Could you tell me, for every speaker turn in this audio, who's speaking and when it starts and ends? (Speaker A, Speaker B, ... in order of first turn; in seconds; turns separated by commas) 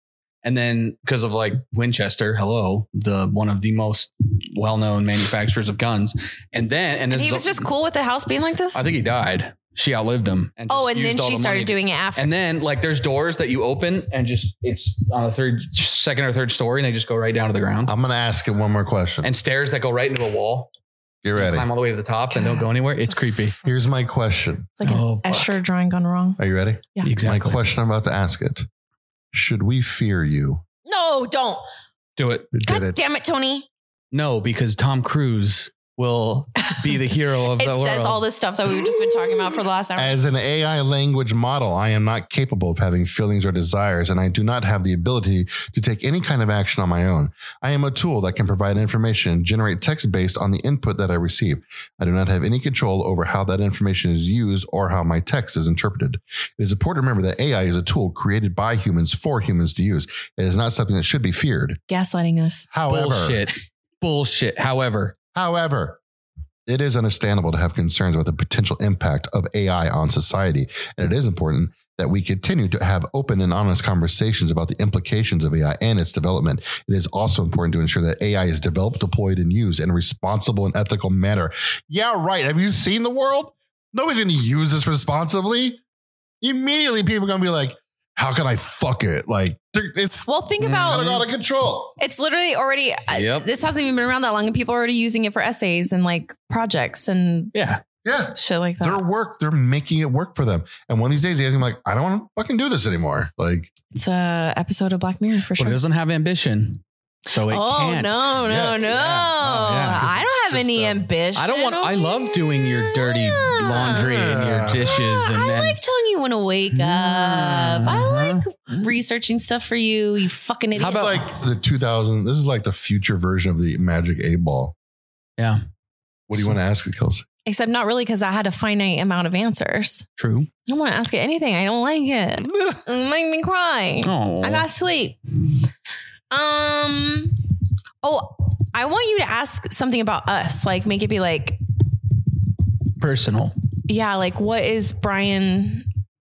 Speaker A: 0.4-7.7, Speaker B: 7.1-8.9, Speaker A: 8.7-17.9, Speaker B: 10.7-12.3, Speaker C: 17.9-19.3, Speaker A: 19.2-20.7, Speaker C: 21.2-21.7, Speaker A: 21.4-23.6, Speaker B: 22.3-23.1, Speaker C: 23.6-24.8, Speaker B: 24.8-26.4, Speaker A: 24.8-25.6, Speaker C: 26.4-28.7, Speaker A: 27.0-27.6, Speaker C: 29.3-30.6, Speaker B: 30.9-31.6, Speaker A: 32.2-32.5, Speaker C: 32.5-33.0, Speaker B: 32.6-33.7, Speaker A: 34.1-38.2, Speaker B: 37.5-40.2, Speaker C: 40.0-61.8, Speaker B: 61.9-62.7, Speaker C: 62.7-63.5, Speaker A: 62.9-65.2, Speaker C: 65.3-66.0, Speaker C: 66.7-85.8, Speaker C: 86.4-90.3, Speaker B: 90.3-91.1, Speaker A: 90.6-91.2, Speaker C: 90.8-92.0, Speaker B: 92.0-97.5, Speaker A: 93.1-93.5, Speaker A: 97.5-97.8, Speaker C: 98.0-103.7, Speaker B: 98.3-99.0, Speaker B: 103.9-105.8, Speaker A: 105.6-110.1, Speaker B: 107.5-114.1, Speaker C: 108.5-111.1, Speaker A: 111.3-115.8, Speaker C: 113.9-115.0, Speaker B: 115.0-121.2, Speaker A: 116.7-118.4, Speaker A: 120.8-121.3, Speaker C: 120.8-124.8, Speaker C: 126.3-127.3, Speaker B: 127.5-130.1, Speaker A: 130.2-130.5, Speaker B: 130.7-135.2, Speaker C: 132.4-132.8, Speaker A: 134.0-134.7, Speaker B: 136.3-137.5, Speaker B: 138.0-141.6, Speaker A: 143.0-143.5, Speaker B: 143.9-145.9